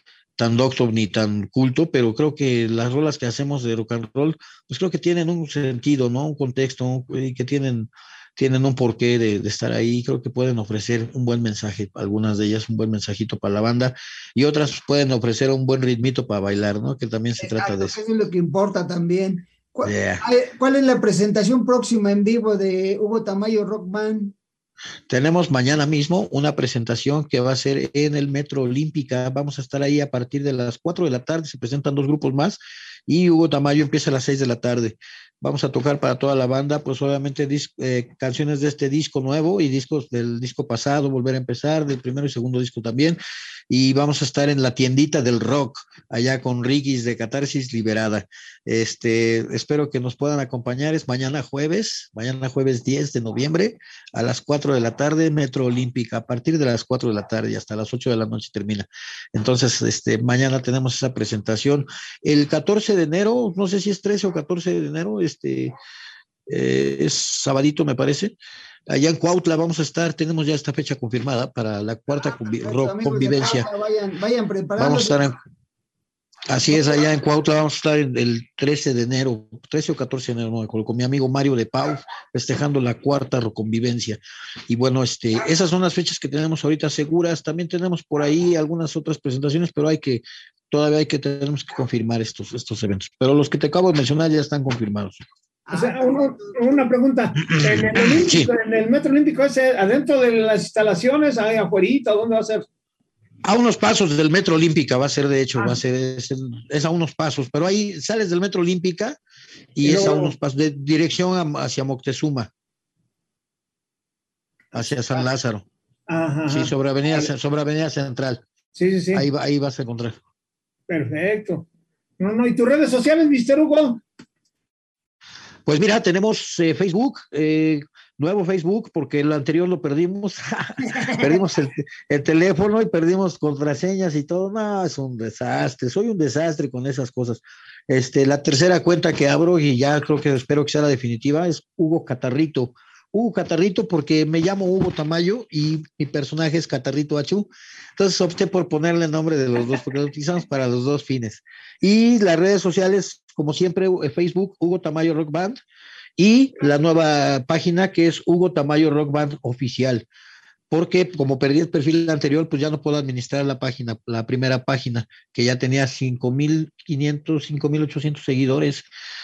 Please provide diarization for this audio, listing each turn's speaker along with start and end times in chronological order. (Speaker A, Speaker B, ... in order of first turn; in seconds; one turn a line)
Speaker A: 0.4-17.9
Speaker B: 17.4-24.4
Speaker A: 19.8-20.2
Speaker A: 25.1-43.2
Speaker A: 43.7-65.7
Speaker A: 66.5-68.3
Speaker A: 68.9-73.7
Speaker B: 72.5-75.2
Speaker A: 74.8-75.3
Speaker A: 76.5-95.2
Speaker B: 95.7-96.9
Speaker C: 95.7-102.7
Speaker A: 97.5-98.5
Speaker A: 103.4-109.2
Speaker A: 109.8-112.5
Speaker C: 109.8-110.3
Speaker A: 114.7-115.7
Speaker C: 116.1-117.2
Speaker A: 116.5-118.4
Speaker C: 118.7-119.2
Speaker A: 119.1-120.2
Speaker C: 120.9-121.7
Speaker C: 122.2-124.0
Speaker A: 125.7-155.6
Speaker B: 131.0-131.2
Speaker A: 156.2-160.1
Speaker A: 160.7-168.8